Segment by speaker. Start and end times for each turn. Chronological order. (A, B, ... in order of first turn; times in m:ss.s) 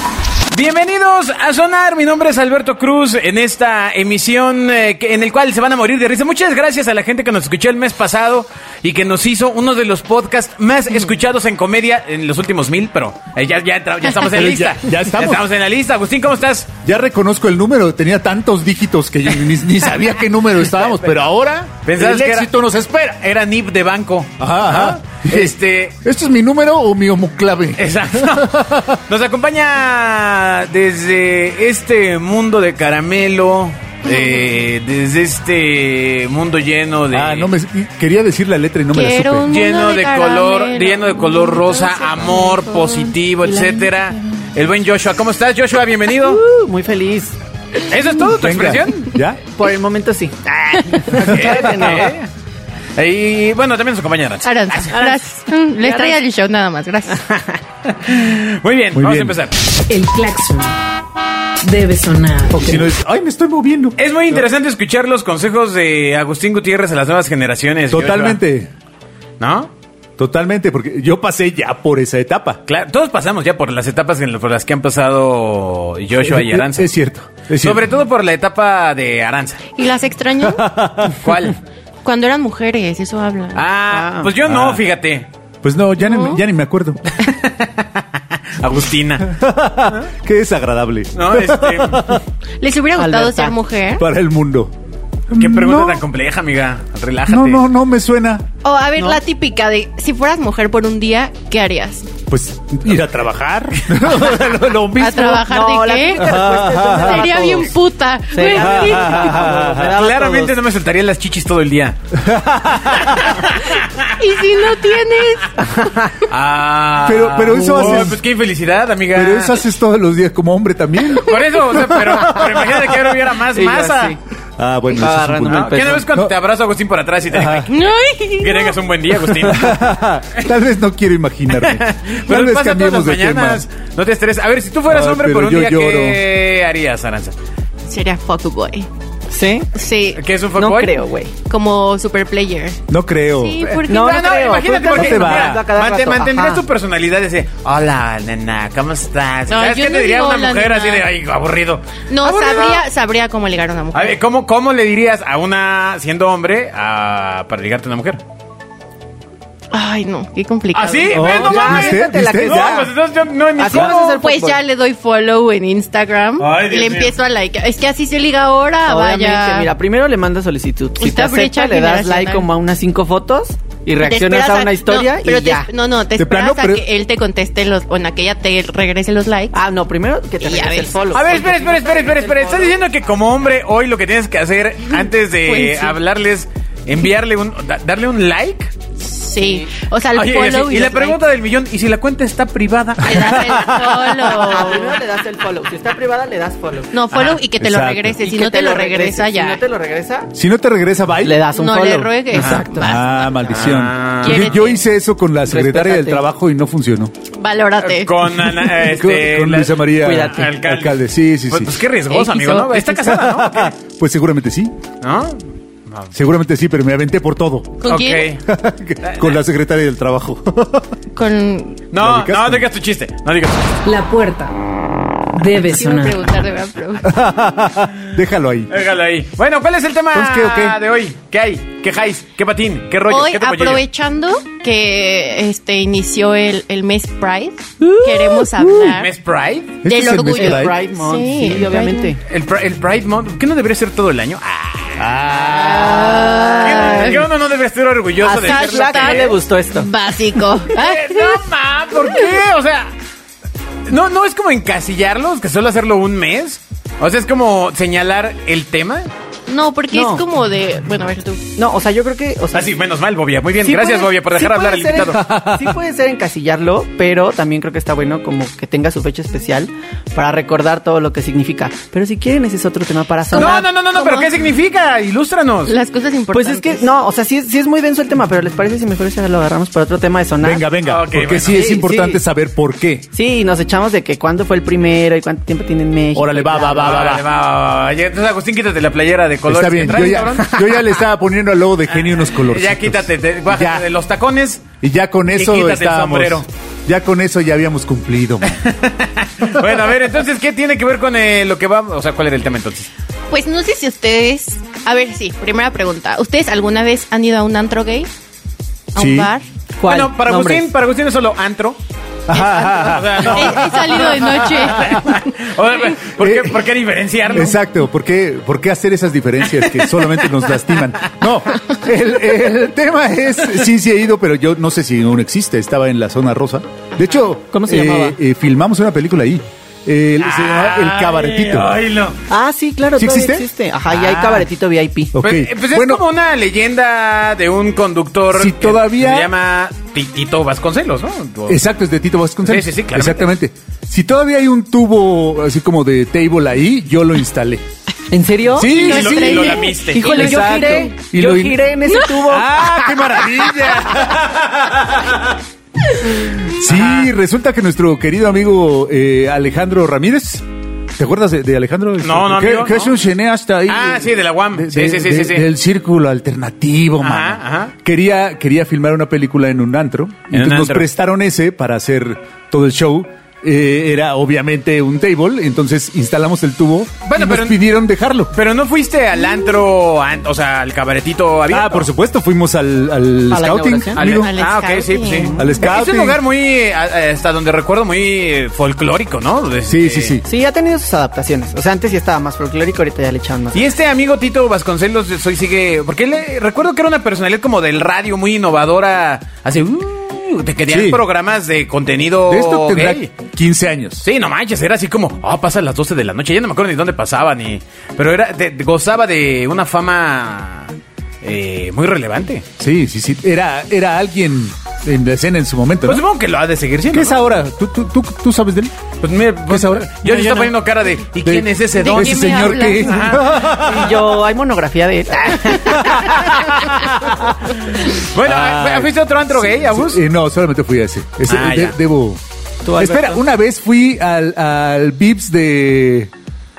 0:00.5-0:16.7 A
0:14.2-0:15.4 B
0:16.8-0:23.1 B
0:21.8-0:26.0 A
0:24.4-0:29.0 B
0:27.8-0:37.5 A
0:37.1-0:39.5 B
0:38.9-0:43.9 C
0:39.5-0:46.4 A
0:46.2-0:47.3 D
0:47.8-0:49.2 A
0:48.3-0:49.4 B
0:49.4-0:50.4 D
0:50.5-0:52.3 A
0:50.9-0:52.2 D
0:51.4-0:51.9 B
0:53.0-0:55.2 A
0:54.4-0:57.3 C
0:55.8-0:56.2 D
0:57.9-0:59.6 A
0:59.0-0:59.4 B
0:59.9-1:00.8 E
1:01.6-1:02.8 E
1:02.5-1:04.4 B
1:04.0-1:08.4 A
1:07.9-1:08.7 B
1:09.4-1:09.7 A
1:10.2-1:12.6 B
1:12.7-1:16.9 A
1:16.2-1:17.9 B
1:17.5-1:19.7 A
1:19.8-1:20.7 C
1:20.4-1:21.3 B
1:21.2-1:21.6 A
1:22.0-1:23.6 C
1:23.6-1:25.3 A
1:23.9-1:24.3 D
1:24.4-1:24.8 B
1:25.6-1:27.0 B
1:26.0-1:26.4 C
1:27.2-1:29.3 A
1:29.2-1:32.2 B
1:31.1-1:32.2 A
1:32.6-1:34.0 C
1:33.0-1:33.6 D
1:34.0-1:34.7 B
1:35.3-1:36.0 B
1:35.3-1:37.6 A
1:37.3-1:38.4 B
1:38.6-1:42.1 C
1:42.3-1:45.5 B
1:45.0-1:49.5 C
1:45.3-1:47.7 D
1:46.1-1:47.3 B
1:48.3-1:50.6 D
1:48.5-1:50.0 B
1:49.9-1:52.0 A
1:52.1-1:53.3 B
1:53.1-1:54.1 A
1:54.1-1:55.6 C
1:55.6-1:56.1 D
1:56.3-1:59.6 A
1:57.0-1:58.2 B
1:57.6-1:58.1 D
1:59.1-2:03.0 B
2:01.2-2:04.2 A
2:03.5-2:04.2 D
2:04.6-2:06.4 B
2:04.9-2:06.1 D
2:05.4-2:07.7 A
2:07.3-2:07.7 B
2:07.7-2:08.8 C
2:08.4-2:09.8 A
2:09.3-2:13.6 B
2:11.5-2:17.3 A
2:14.9-2:16.2 B
2:17.8-2:18.9 C
2:19.3-2:19.7 D
2:19.7-2:20.2 C
2:20.2-2:21.0 A
2:20.5-2:21.3 D
2:21.4-2:22.8 C
2:22.9-2:23.7 B
2:23.3-2:24.2 C
2:23.8-2:32.8 A
2:23.8-2:26.6 D
2:24.9-2:25.7 B
2:29.5-2:31.0 C
2:32.1-2:34.2 C
2:33.9-2:38.2 A
2:39.7-2:41.2 C
2:40.7-2:44.2 A
2:41.1-2:42.9 B
2:41.1-2:42.9 D
2:43.6-2:44.6 D
2:43.7-2:49.7 C
2:46.4-2:47.1 A
2:48.8-2:55.7 D
2:51.0-2:52.5 C
2:54.0-2:59.6 C
2:56.2-2:56.8 B
2:59.5-3:02.8 D
3:00.4-3:01.4 C
3:01.1-3:08.7 A
3:04.9-3:06.0 C
3:09.0-3:11.2 C
3:09.4-3:09.7 D
3:10.1-3:13.6 A
3:13.0-3:14.9 C
3:14.2-3:16.9 D
3:16.9-3:19.6 C
3:17.5-3:18.2 B
3:18.2-3:20.3 D
3:20.3-3:21.4 B
3:21.2-3:22.9 D
3:21.5-3:24.8 C
3:22.3-3:22.6 A
3:22.7-3:27.1 B
3:23.5-3:24.5 A
3:25.5-3:26.2 D
3:27.3-3:28.1 C
3:27.8-3:33.7 A
3:28.5-3:31.8 B
3:30.0-3:30.4 D
3:32.1-3:32.8 C
3:32.8-3:34.7 B
3:35.0-3:36.1 A
3:36.1-3:37.8 B
3:37.8-3:38.3 C
3:37.8-3:38.4 A
3:38.4-3:40.9 B
3:39.0-3:39.4 A
3:41.1-3:41.8 C
3:41.9-3:43.8 A
3:42.0-3:42.7 B
3:43.8-3:44.6 E
3:45.3-3:46.3 E
3:45.6-3:47.1 C
3:47.0-3:48.7 B
3:48.7-3:53.8 A
3:50.1-3:50.8 B
3:53.1-3:59.1 C
3:58.8-3:59.8 A
3:59.8-4:00.8 B
3:59.8-4:02.1 C
4:00.2-4:02.2 D
4:02.3-4:05.1 A
4:05.0-4:06.0 B
4:05.5-4:07.2 C
4:05.5-4:07.3 D
4:06.6-4:09.4 A
4:08.2-4:09.9 D
4:08.3-4:12.3 C
4:10.7-4:12.9 A
4:13.8-4:19.1 A
4:19.5-4:21.4 C
4:19.9-4:20.2 D
4:21.6-4:22.7 D
4:22.5-4:25.2 A
4:23.6-4:33.7 D
4:25.0-4:25.8 B
4:33.3-4:34.3 C
4:33.3-4:35.7 A
4:35.7-4:36.9 C
4:36.3-4:40.6 D
4:40.4-4:43.1 B
4:40.8-4:41.8 A
4:41.4-4:42.2 D
4:43.1-4:47.1 D
4:46.1-4:47.2 B
4:46.8-4:50.5 A
4:49.5-4:53.9 B
4:52.0-4:54.7 A
4:54.8-4:58.6 B
4:55.4-4:56.5 A
4:58.4-5:02.9 A
5:03.3-5:08.1 C
5:08.9-5:09.4 C
5:09.0-5:09.3 B
5:09.8-5:10.7 D
5:09.8-5:11.8 A
5:12.3-5:15.0 B
5:12.3-5:15.3 C
5:12.7-5:17.6 A
5:16.2-5:16.6 B
5:17.3-5:31.8 B
5:19.6-5:20.1 A
5:27.5-5:28.2 D
5:30.2-5:32.2 A
5:32.3-5:35.1 D
5:33.0-5:34.5 B
5:35.1-5:36.0 B
5:35.2-5:41.6 A
5:38.3-5:39.3 B
5:41.5-5:47.6 B
5:42.4-5:43.3 A
5:48.1-5:53.2 D
5:48.6-5:49.5 B
5:48.6-5:50.9 C
5:48.6-5:50.3 A
5:50.1-5:55.4 B
5:51.9-5:52.2 C
5:53.4-5:54.1 A
5:56.1-6:00.4 B
5:56.6-5:57.1 A
6:01.0-6:18.3 B
6:02.0-6:03.0 A
6:03.7-6:05.5 A
6:07.0-6:07.8 A
6:10.3-6:10.9 A
6:17.0-6:17.6 A
6:18.3-6:21.9 A
6:21.5-6:24.3 B
6:23.3-6:24.0 D
6:23.9-6:30.2 A
6:24.0-6:25.4 C
6:25.4-6:26.2 B
6:29.7-6:30.3 B
6:30.2-6:33.7 D
6:33.5-6:43.1 A
6:40.7-6:41.0 B
6:42.3-6:44.1 B
6:44.0-6:52.5 A
6:52.6-6:56.0 B
6:55.8-6:57.2 A
6:56.9-6:58.7 B
6:59.0-7:03.5 A
6:59.5-7:00.5 B
7:01.2-7:04.0 B
7:01.8-7:03.2 C
7:03.5-7:06.2 D
7:05.3-7:06.8 A
7:05.8-7:06.2 B
7:06.8-7:07.3 B
7:07.9-7:10.0 A
7:08.2-7:12.2 B
7:11.3-7:11.8 A
7:12.6-7:13.2 D
7:12.8-7:16.1 B